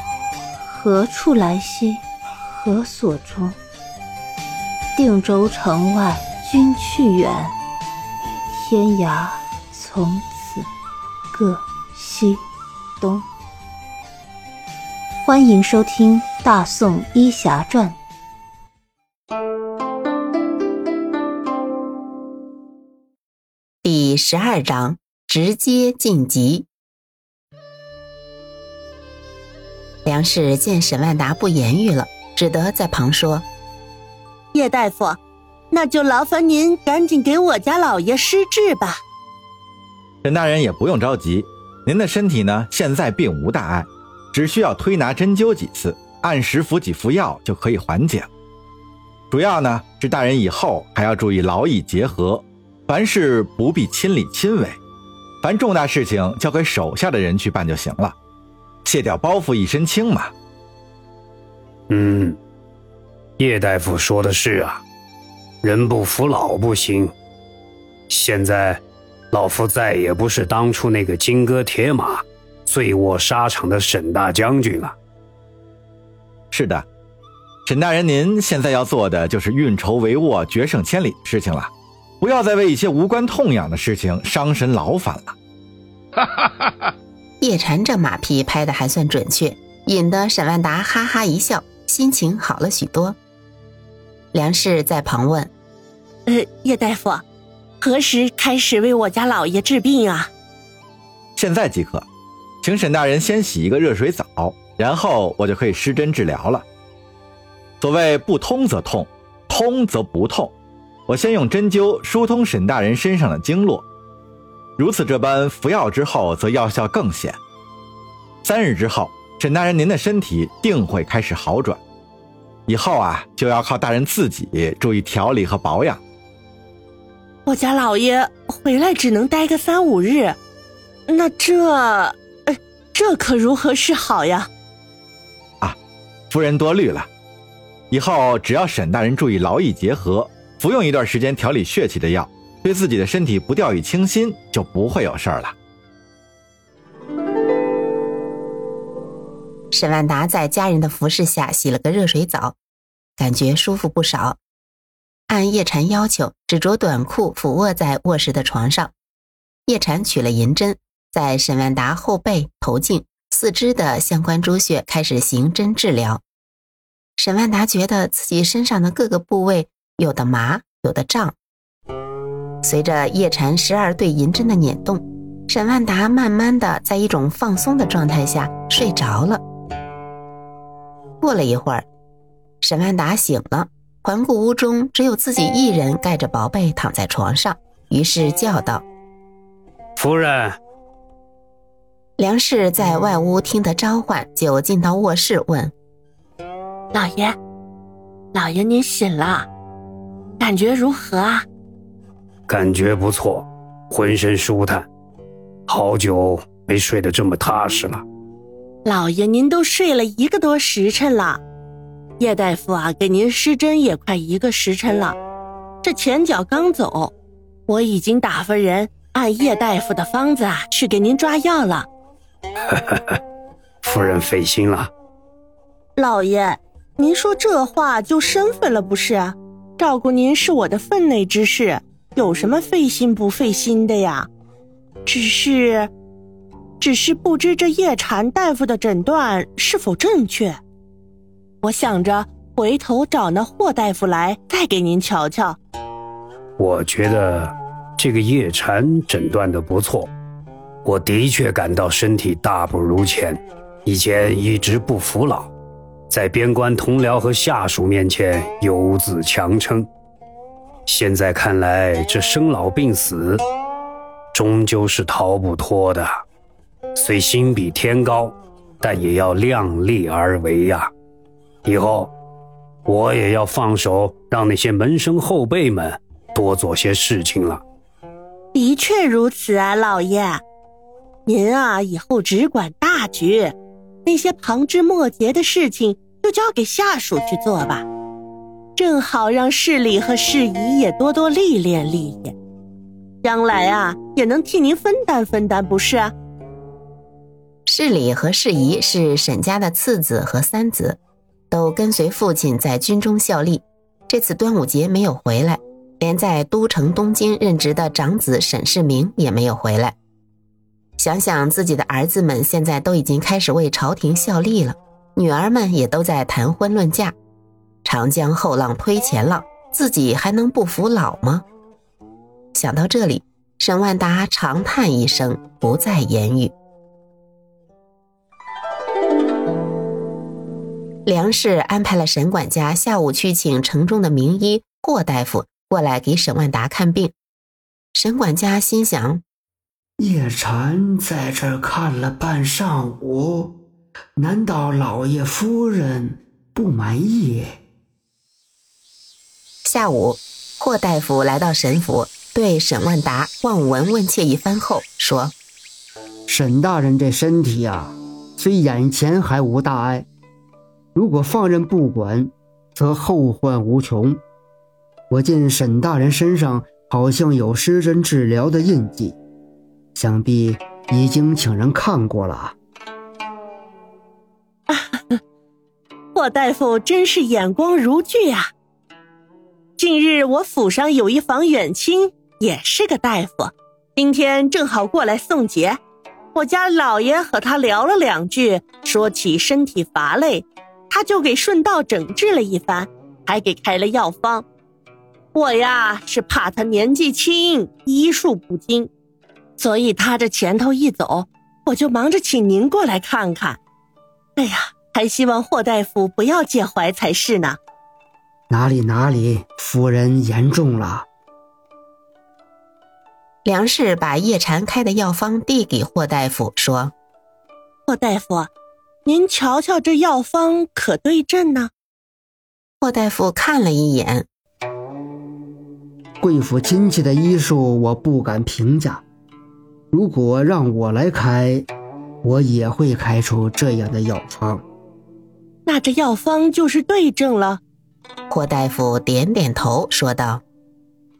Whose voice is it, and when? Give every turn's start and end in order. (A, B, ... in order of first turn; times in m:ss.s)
0:00.7-0:03.5 A
0:05.0-0:07.5 A
0:08.5-0:10.6 A
0:11.3-0:12.4 A
0:13.0-0:13.2 A
0:15.2-0:18.0 A
0:23.8-0:26.7 B
0:30.0-0:33.4 B
0:34.5-0:35.2 C
0:35.7-0:39.0 C
0:40.2-0:48.3 D
0:49.3-0:54.8 D
0:55.4-0:58.1 D
0:58.8-1:00.3 D
1:01.9-1:02.4 E
1:03.4-1:04.8 E
1:05.6-1:07.1 E
1:08.1-1:08.8 E
1:09.3-1:14.9 E
1:16.5-1:16.8 D
1:17.6-1:25.4 D
1:27.4-1:33.2 B
1:34.3-1:35.5 B
1:36.3-1:37.2 C
1:37.8-1:40.3 C
1:41.4-1:42.0 D
1:42.6-1:46.6 D
1:47.8-1:50.5 D
1:51.1-1:53.8 D
1:54.8-1:57.4 D
1:58.4-2:01.8 D
2:02.7-2:06.0 D
2:07.4-2:10.4 C
2:11.1-2:14.5 C
2:16.3-2:17.1 D
2:17.9-2:25.5 D
2:29.7-2:32.6 B
2:33.2-2:34.4 B
2:35.3-2:38.9 B
2:39.7-2:46.2 B
2:47.2-2:51.3 B
2:52.6-2:59.4 B
3:01.2-3:01.8 B
3:02.6-3:08.8 B
3:10.0-3:10.6 E
3:12.2-3:15.7 B
3:16.9-3:17.4 C
3:18.3-3:19.5 C
3:20.4-3:21.4 C
3:22.5-3:24.8 E
3:25.7-3:28.0 E
3:28.8-3:31.4 C
3:32.2-3:35.2 C
3:35.8-3:37.1 C
3:37.7-3:41.9 C
3:43.8-3:44.9 E
3:46.0-3:54.3 C
3:55.0-3:55.9 C
3:56.8-4:00.6 C
4:01.6-4:05.6 C
4:06.6-4:10.1 E
4:10.8-4:15.5 E
4:16.1-4:19.9 E
4:20.9-4:23.4 E
4:24.3-4:26.2 E
4:26.9-4:30.9 E
4:31.6-4:32.1 E
4:32.8-4:37.6 E
4:38.5-4:40.4 C
4:41.2-4:47.8 C
4:48.8-4:52.3 C
4:53.2-4:56.1 C
4:57.6-5:01.0 B
5:01.5-5:09.9 B
5:11.0-5:17.1 B
5:17.8-5:21.4 B
5:22.5-5:26.5 B
5:31.0-5:37.1 B
5:37.9-5:39.2 B
5:40.0-5:43.5 F
5:44.2-5:47.6 F
5:49.6-5:55.3 B
5:56.3-6:00.1 F
6:00.9-6:04.2 F
6:05.1-6:09.2 F
6:10.0-6:12.5 F
6:14.7-6:15.2 C
6:16.1-6:18.5 C
6:19.8-6:25.8 C
6:26.3-6:34.4 C
6:35.3-6:38.9 C
6:39.6-6:43.6 C
6:44.4-6:47.6 C
6:48.5-6:51.0 F
6:53.4-6:56.9 B
6:57.9-6:58.5 C
6:59.0-7:01.7 C
7:02.8-7:04.2 B
7:06.2-7:09.0 F
7:09.9-7:11.7 F
7:12.2-7:14.6 F
7:15.6-7:17.6 C
7:18.3-7:20.4 B